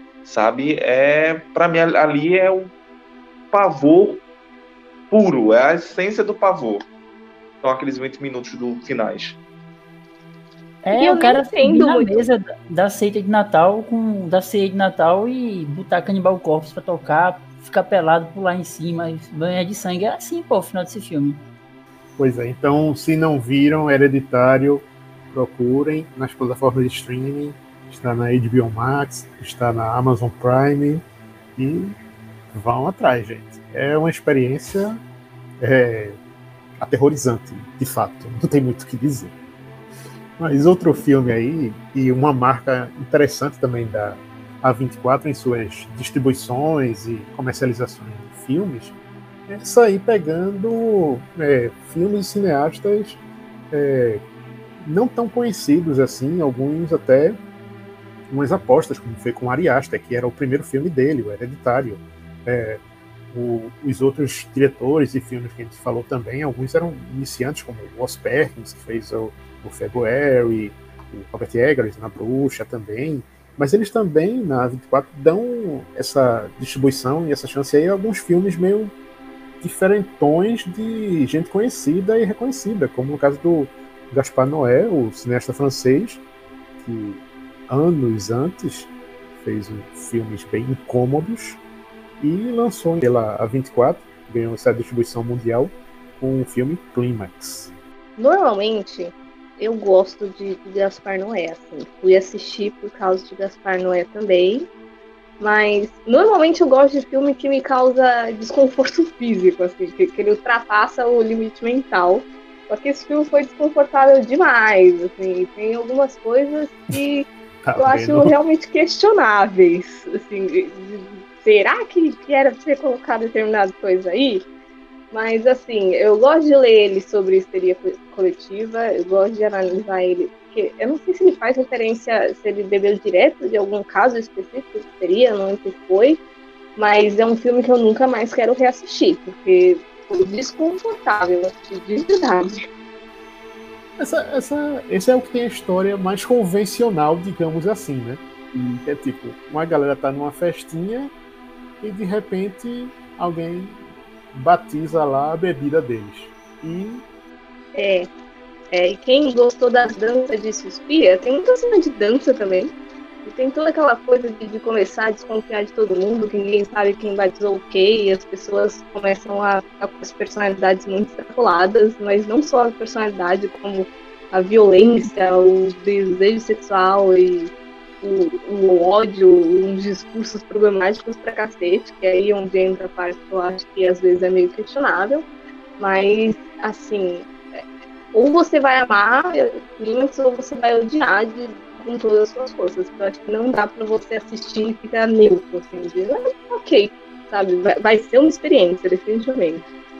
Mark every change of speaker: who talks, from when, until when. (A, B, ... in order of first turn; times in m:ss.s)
0:00.2-0:02.7 A
0:03.5-0:04.2 A
0:05.1-0:06.8 A
0:07.6-0:09.4 A
0:10.8-0:21.4 B
0:10.9-0:12.2 C
0:22.2-0:31.0 D
0:31.6-0:32.0 D
0:32.5-0:35.0 D
0:35.6-0:36.2 D
0:36.8-0:39.3 D
0:40.4-0:48.9 D
0:49.5-0:54.2 D
0:54.8-0:57.4 D
0:58.3-1:18.9 D
1:19.6-1:26.2 D
1:26.8-1:31.6 D
1:32.2-1:37.7 D
1:38.2-1:44.7 C
1:45.4-2:04.4 C
1:57.6-1:58.3 D
2:05.1-2:16.2 C
2:16.8-2:22.6 C
2:24.0-2:28.2 D
2:28.5-2:28.8 B
2:28.8-2:31.1 D
2:31.8-2:33.8 D
2:34.3-2:37.0 D
2:37.7-2:38.1 C
2:38.7-2:42.7 C
2:43.2-3:05.2 C
3:05.8-3:07.6 C
3:08.1-3:19.6 C